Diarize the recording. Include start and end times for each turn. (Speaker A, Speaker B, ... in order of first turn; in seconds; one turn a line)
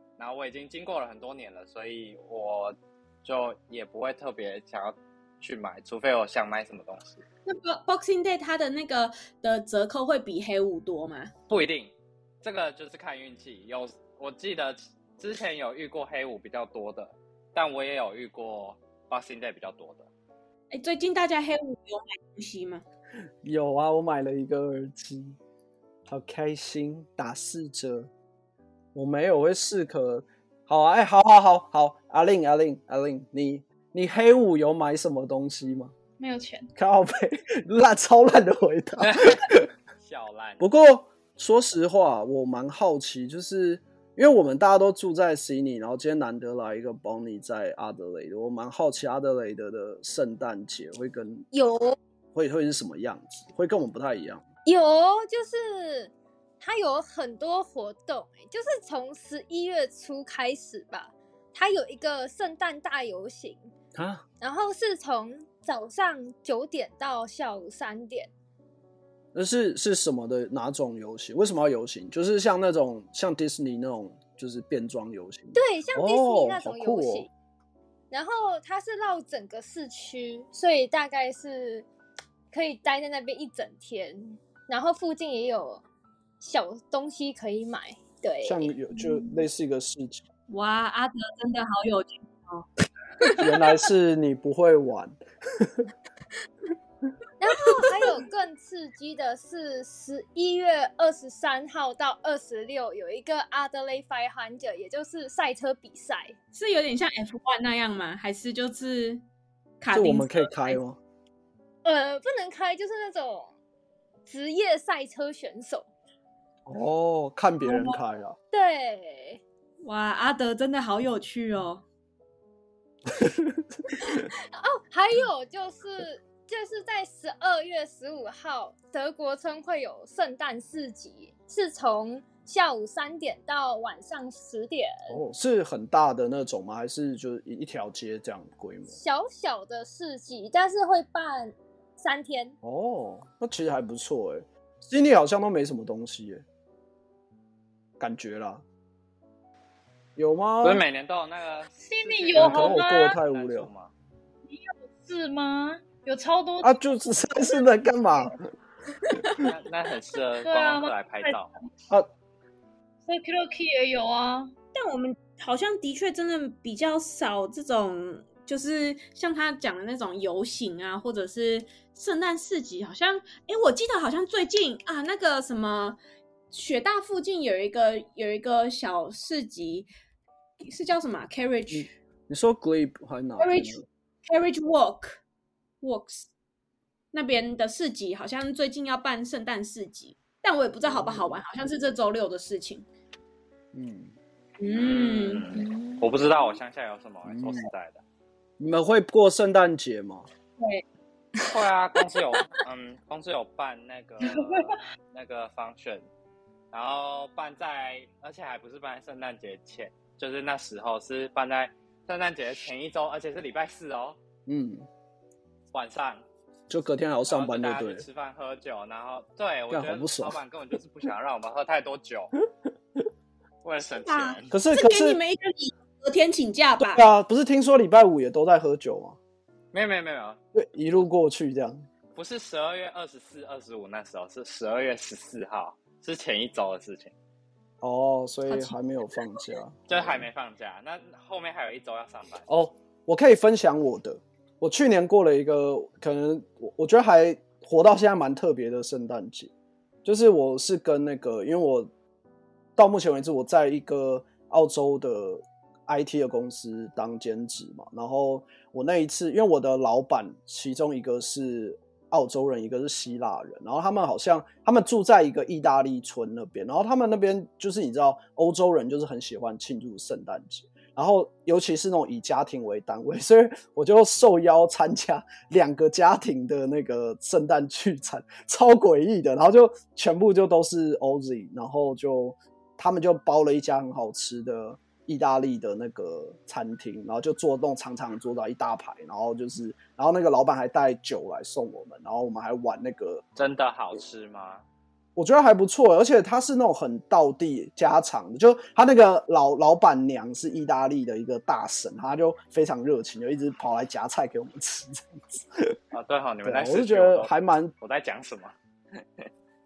Speaker A: 0.2-7.2
Speaker B: 7.5-11.3
Speaker A: 11.5-20.1
Speaker B: 20.7-22.8
Speaker C: 23.4-25.4
Speaker C: 26.1-28.1
Speaker C: 28.9-35.9
Speaker D: 36.2-36.7
Speaker C: 36.8-39.7
Speaker A: 39.0-39.5
Speaker A: 40.0-40.7
Speaker C: 40.6-51.5
Speaker E: 51.5-52.0
Speaker C: 52.4-54.4
Speaker E: 54.6-63.7
Speaker C: 64.0-64.2
Speaker E: 64.4-68.3
Speaker C: 69.3-77.3
Speaker E: 75.5-77.3
Speaker E: 78.1-81.9
Speaker E: 82.5-85.8
Speaker E: 86.4-88.7
Speaker C: 88.4-90.2
Speaker B: 90.5-92.7
Speaker B: 93.2-93.5
Speaker C: 93.4-95.9
Speaker E: 97.4-106.4
Speaker B: 106.5-109.2
Speaker B: 109.8-110.8
Speaker C: 109.9-111.0
Speaker E: 111.8-113.5
Speaker E: 114.2-115.9
Speaker C: 116.7-118.4
Speaker B: 117.6-118.0
Speaker E: 118.5-119.4
Speaker B: 119.8-121.8
Speaker C: 123.1-124.2
Speaker E: 124.0-135.2
Speaker C: 135.1-139.0
Speaker E: 138.9-142.6
Speaker C: 142.6-146.4
Speaker C: 148.0-148.6
Speaker C: 150.2-150.8
Speaker A: 150.6-153.9
Speaker D: 151.8-153.2
Speaker C: 152.3-153.7
Speaker D: 154.5-158.3
Speaker C: 156.6-158.4
Speaker A: 159.3-161.5
Speaker D: 160.4-161.7
Speaker D: 163.1-164.5
Speaker B: 164.7-176.0
Speaker B: 176.5-179.9
Speaker B: 180.6-181.9
Speaker C: 181.7-183.8
Speaker B: 183.4-185.2
Speaker B: 185.8-186.3
Speaker B: 187.1-192.9
Speaker C: 190.8-191.4
Speaker C: 193.7-194.1
Speaker B: 194.6-195.6
Speaker A: 194.7-198.0
Speaker E: 195.7-196.1
Speaker C: 197.3-197.7
Speaker C: 198.6-200.3
Speaker B: 200.6-200.8
Speaker A: 201.4-206.1
Speaker A: 206.7-214.2
Speaker C: 214.5-214.9
Speaker A: 215.7-216.2
Speaker C: 216.7-218.1
Speaker A: 217.3-222.3
Speaker C: 219.7-220.4
Speaker A: 223.6-224.5
Speaker B: 223.9-227.1
Speaker C: 224.5-225.2
Speaker C: 226.8-229.2
Speaker A: 229.7-230.4
Speaker C: 230.5-231.9
Speaker A: 232.1-237.1
Speaker C: 237.8-240.3
Speaker B: 238.5-238.8
Speaker A: 239.9-242.5
Speaker C: 242.5-249.5
Speaker C: 250.1-251.9
Speaker C: 252.8-293.2
Speaker A: 293.4-294.6
Speaker C: 295.1-305.8
Speaker A: 305.9-309.3
Speaker C: 306.4-307.7